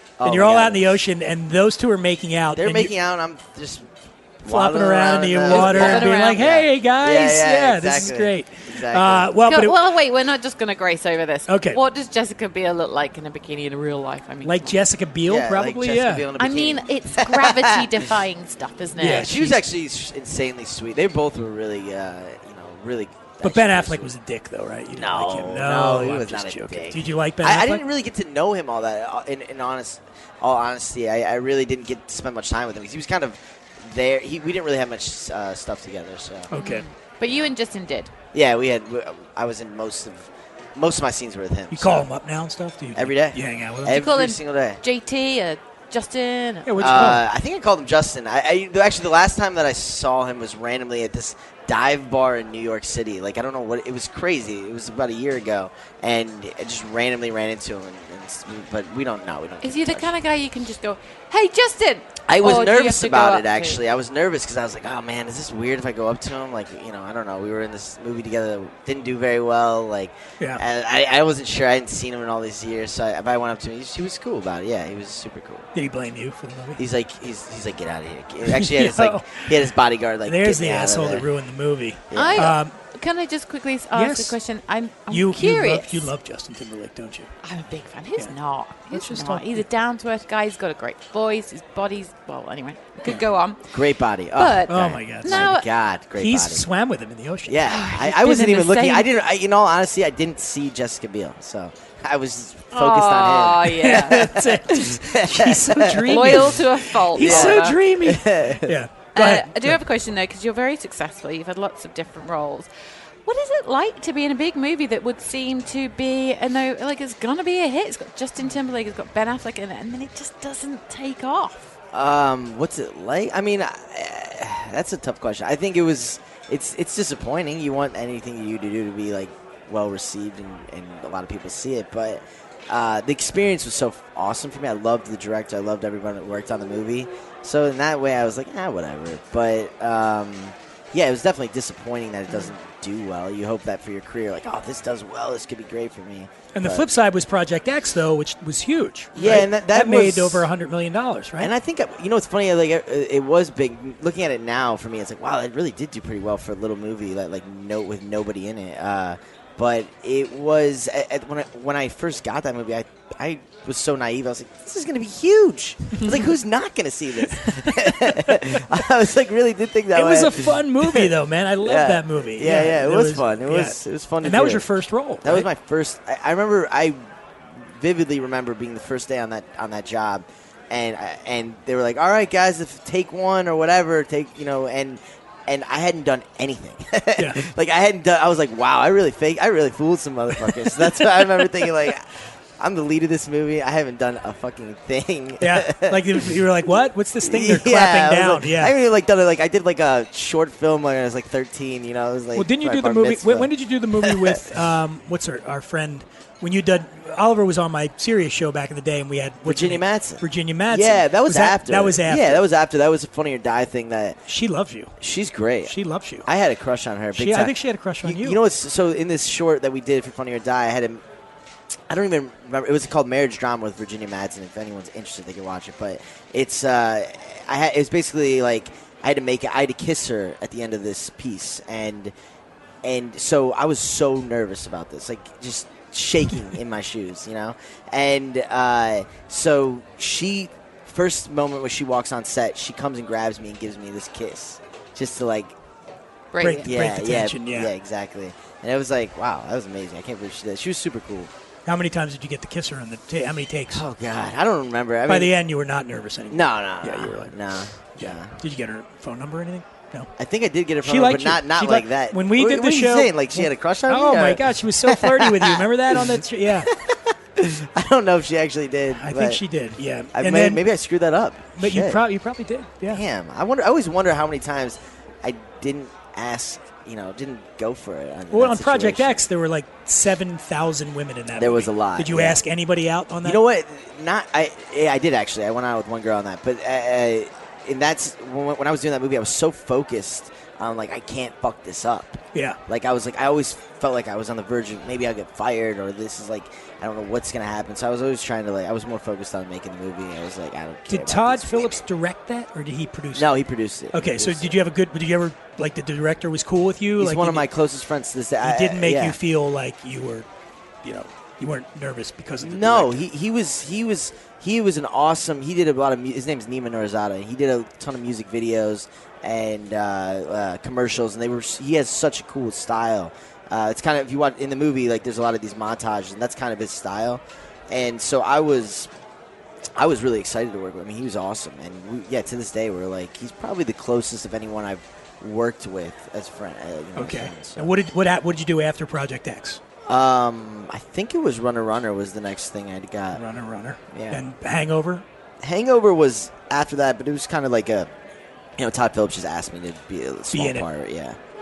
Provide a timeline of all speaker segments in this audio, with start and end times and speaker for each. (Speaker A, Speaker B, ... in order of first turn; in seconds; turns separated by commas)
Speaker A: 0.2-1.0, Speaker B: 0.2-2.9, Speaker A: 2.5-9.3, Speaker B: 4.4-9.8, Speaker C: 5.5-6.4, Speaker C: 9.4-14.8, Speaker B: 11.5-11.8, Speaker B: 14.4-16.2, Speaker A: 15.2-17.8, Speaker C: 16.4-19.5, Speaker B: 19.0-19.5, Speaker A: 19.0-24.1, Speaker B: 23.4-27.8, Speaker A: 24.9-36.5, Speaker B: 36.5-36.8, Speaker C: 36.5-38.1, Speaker A: 37.2-37.5, Speaker A: 38.3-42.1, Speaker B: 41.7-44.3, Speaker A: 42.9-44.8, Speaker C: 43.9-47.1, Speaker B: 46.6-47.2, Speaker A: 46.8-60.1, Speaker C: 59.6-63.8, Speaker A: 62.3-75.7, Speaker B: 75.7-76.8, Speaker A: 76.8-81.3, Speaker B: 78.5-79.5, Speaker B: 80.2-82.7, Speaker A: 82.1-82.6, Speaker C: 82.1-86.1, Speaker B: 83.9-84.4, Speaker B: 85.1-87.3, Speaker C: 87.4-93.7, Speaker B: 88.9-89.7, Speaker A: 93.7-96.7, Speaker C: 94.3-95.7, Speaker B: 94.7-95.5, Speaker B: 96.2-97.7, Speaker A: 97.5-106.6, Speaker C: 97.7-99.0, Speaker C: 102.7-104.2, Speaker B: 103.7-109.8, Speaker C: 106.0-107.8, Speaker A: 107.2-108.8, Speaker C: 109.1-112.7, Speaker C: 113.2-121.7, Speaker A: 121.9-146.9, Speaker B: 146.5-151.5, Speaker A: 149.2-150.5, Speaker A: 151.4-174.7, Speaker B: 169.9-175.5, Speaker A: 175.2-177.0, Speaker A: 177.5-204.7, Speaker B: 187.2-187.4, Speaker B: 195.4-198.7, Speaker B: 202.3-212.4, Speaker A: 209.4-214.2, Speaker B: 214.3-214.9, Speaker A: 215.0-221.0, Speaker B: 215.7-216.3, Speaker B: 217.1-218.4, Speaker A: 221.9-232.1, Speaker A: 232.8-245.6, Speaker C: 246.3-246.7, Speaker B: 246.4-247.7, Speaker A: 246.6-251.3, Speaker B: 251.7-253.8, Speaker A: 253.7-255.3, Speaker B: 255.1-257.3, Speaker A: 256.3-258.3, Speaker B: 257.9-260.1, Speaker A: 260.2-269.4, Speaker B: 260.8-266.7, Speaker B: 268.9-270.6, Speaker A: 270.1-272.0, Speaker B: 271.6-273.0, Speaker A: 272.9-279.2, Speaker B: 278.3-283.4, Speaker A: 281.3-282.4, Speaker A: 283.2-301.8, Speaker B: 300.9-303.3, Speaker A: 303.1-304.6, Speaker B: 303.9-307.4, Speaker A: 307.0-309.2, Speaker B: 308.4-310.3, Speaker B: 310.8-313.0, Speaker A: 312.4-328.9, Speaker A: 329.8-337.7, Speaker B: 336.9-339.6, Speaker A: 339.9-343.2, Speaker B: 343.1-345.0, Speaker A: 343.9-344.2, Speaker A: 345.4-347.9, Speaker A: 348.6-351.2, Speaker B: 350.3-350.6